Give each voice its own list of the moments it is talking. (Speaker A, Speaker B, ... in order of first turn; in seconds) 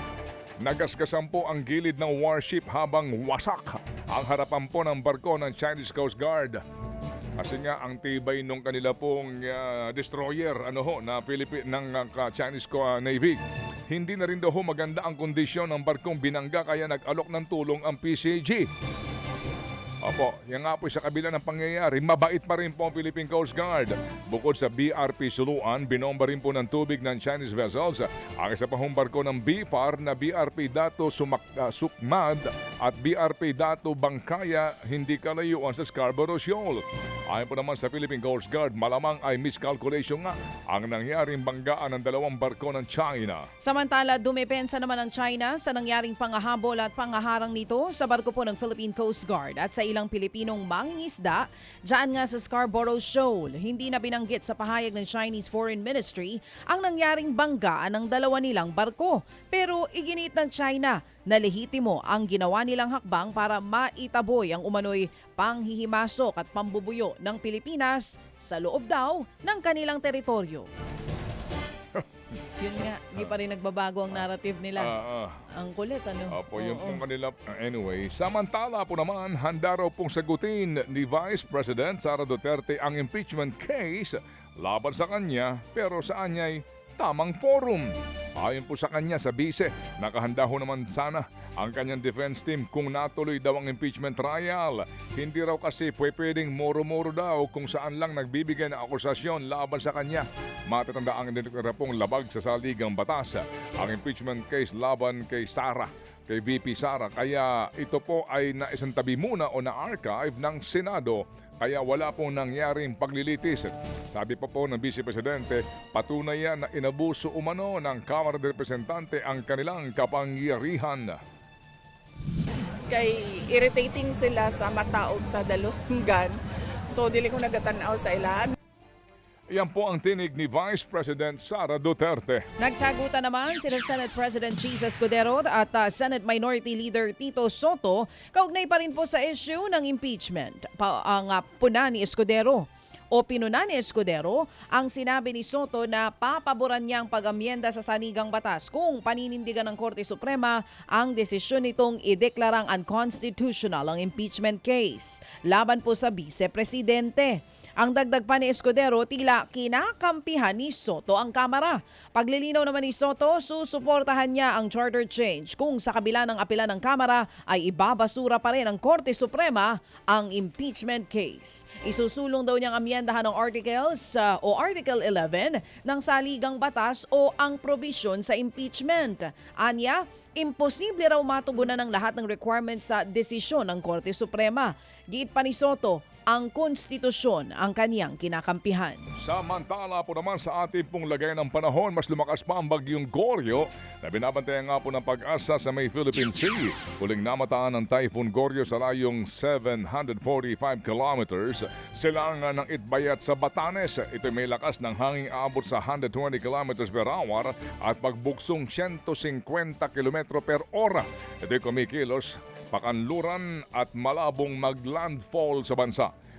Speaker A: 0.6-6.6, 7.4-13.4, 13.9-18.7, 20.0-43.5, 74.8-75.5, 76.3-121.2, 129.5-132.5, 189.2-216.1
Speaker B: 43.6-70.7, 72.6-75.0, 75.5-77.0, 132.6-189.0
Speaker C: 122.8-128.6